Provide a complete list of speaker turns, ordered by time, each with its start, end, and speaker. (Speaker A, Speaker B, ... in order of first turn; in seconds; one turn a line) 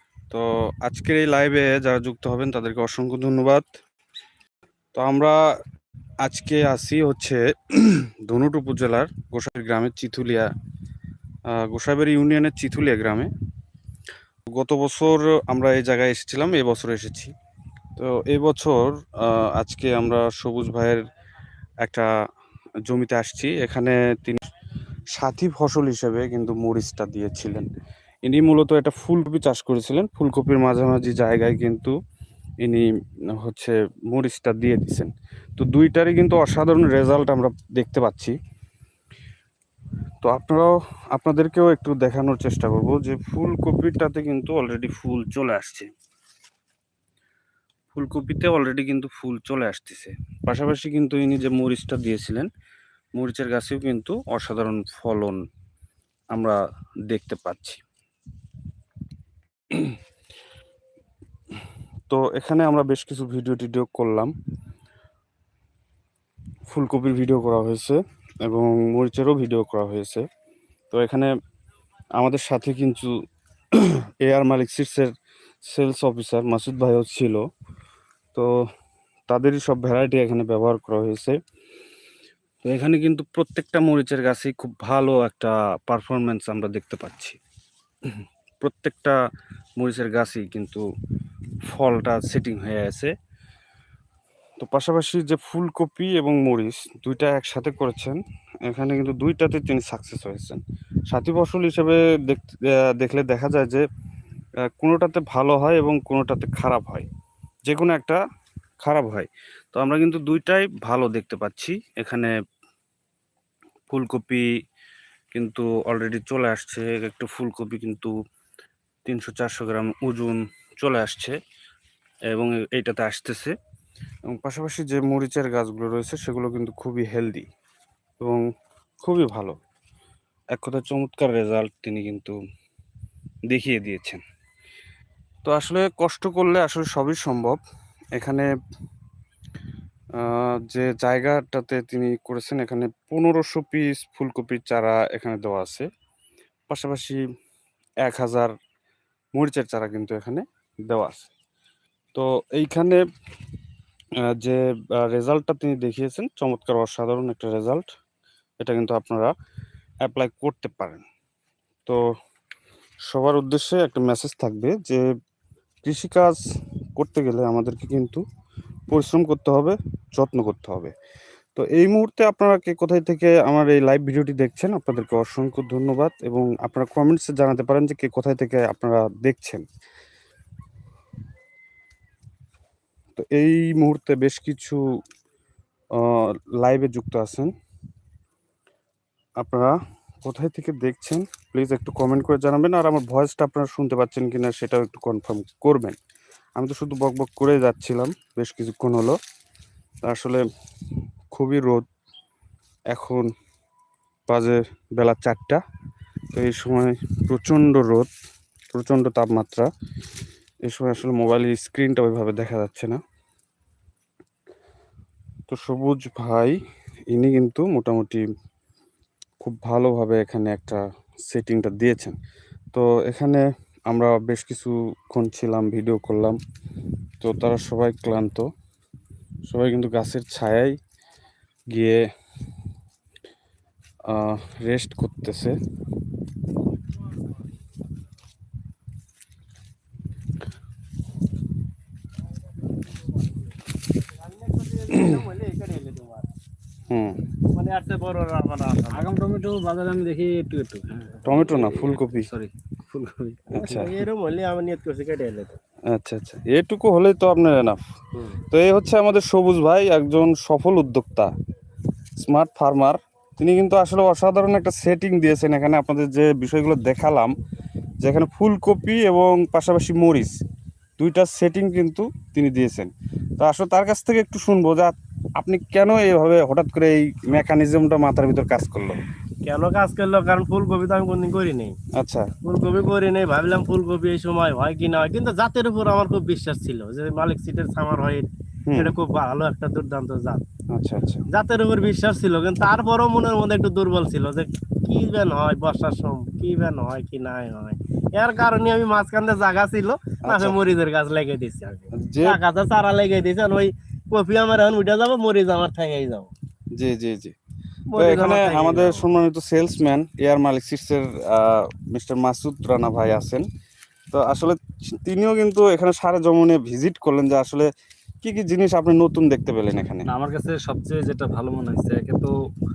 Speaker A: 0.3-3.7
Speaker A: 4.9-5.4
Speaker A: 6.2-10.5
Speaker A: 11.5-13.3
Speaker A: 14.5-17.3
Speaker A: 18.0-21.0
Speaker A: 21.8-22.1
Speaker A: 22.9-24.4
Speaker A: 25.1-27.7
Speaker A: 28.2-31.9
Speaker A: 32.6-32.9
Speaker A: 33.4-38.4
Speaker A: 40.2-45.9
Speaker A: 47.9-52.5
Speaker A: 53.2-55.4
Speaker A: 56.3-56.6
Speaker A: 57.1-57.8
Speaker A: 62.1-64.3
Speaker A: 66.7-70.3
Speaker A: 70.9-71.3
Speaker A: 72.2-73.2
Speaker A: 73.7-75.1
Speaker A: 75.7-77.4
Speaker A: 79.3-81.4
Speaker A: 82.7-87.4
Speaker A: 88.6-89.2
Speaker A: 89.8-90.9
Speaker A: 91.7-93.1
Speaker A: 94.6-103.8
Speaker A: 104.8-107.1
Speaker A: 107.7-108.2
Speaker A: 108.8-112.3
Speaker A: 113.9-114.5
Speaker A: 115.3-118.1
Speaker A: 119.0-121.4
Speaker A: 122.3-123.5
Speaker A: 124.3-127.5
Speaker A: 128.2-128.4
Speaker A: 129.0-129.6
Speaker A: 130.5-132.4
Speaker A: 133.5-134.2
Speaker A: 135.4-137.6
Speaker A: 138.2-138.5
Speaker A: 140.2-145.9
Speaker A: 146.7-147.2
Speaker A: 148.0-148.6
Speaker A: 149.3-151.3
Speaker A: 152.1-153.0
Speaker A: 154.3-157.9
Speaker A: 158.6-159.3
Speaker A: 160.0-161.0
Speaker A: 163.1-165.0
Speaker A: 165.8-166.4
Speaker A: 167.0-168.2
Speaker A: 168.9-170.9
Speaker A: 171.6-179.7
Speaker A: 183.2-184.8
Speaker A: 186.0-187.5
Speaker A: 189.4-196.0
Speaker A: 196.6-199.2
Speaker A: 200.0-200.4
Speaker A: 201.3-201.9
Speaker A: 202.9-203.3
Speaker A: 204.3-205.6
Speaker A: 206.3-208.1
Speaker A: 208.7-209.7
Speaker A: 210.7-213.0
Speaker A: 215.5-216.6
Speaker A: 217.1-218.3
Speaker A: 219.4-222.2
Speaker A: 222.7-226.4
Speaker A: 227.2-228.5
Speaker A: 229.5-230.8
Speaker A: 231.7-232.0
Speaker A: 234.1-235.6
Speaker B: 244.1-246.3
Speaker A: 246.9-247.2
Speaker B: 247.5-249.1
Speaker C: 248.9-253.6
Speaker A: 251.2-252.3
Speaker A: 253.5-253.9
Speaker B: 253.6-255.6
Speaker A: 255.9-257.8
Speaker A: 258.5-261.3
Speaker A: 262.2-267.3
Speaker A: 268.0-270.4
Speaker A: 271.0-279.0
Speaker B: 279.4-281.8
Speaker A: 282.0-282.3
Speaker B: 282.4-290.4
Speaker A: 288.7-288.9
Speaker A: 290.7-291.3
Speaker B: 291.3-306.3
Speaker A: 300.2-300.6
Speaker A: 301.9-302.4
Speaker A: 306.8-307.4
Speaker B: 307.9-309.1
Speaker A: 308.0-313.4
Speaker A: 314.1-317.7
Speaker A: 318.2-320.1
Speaker C: 320.1-322.3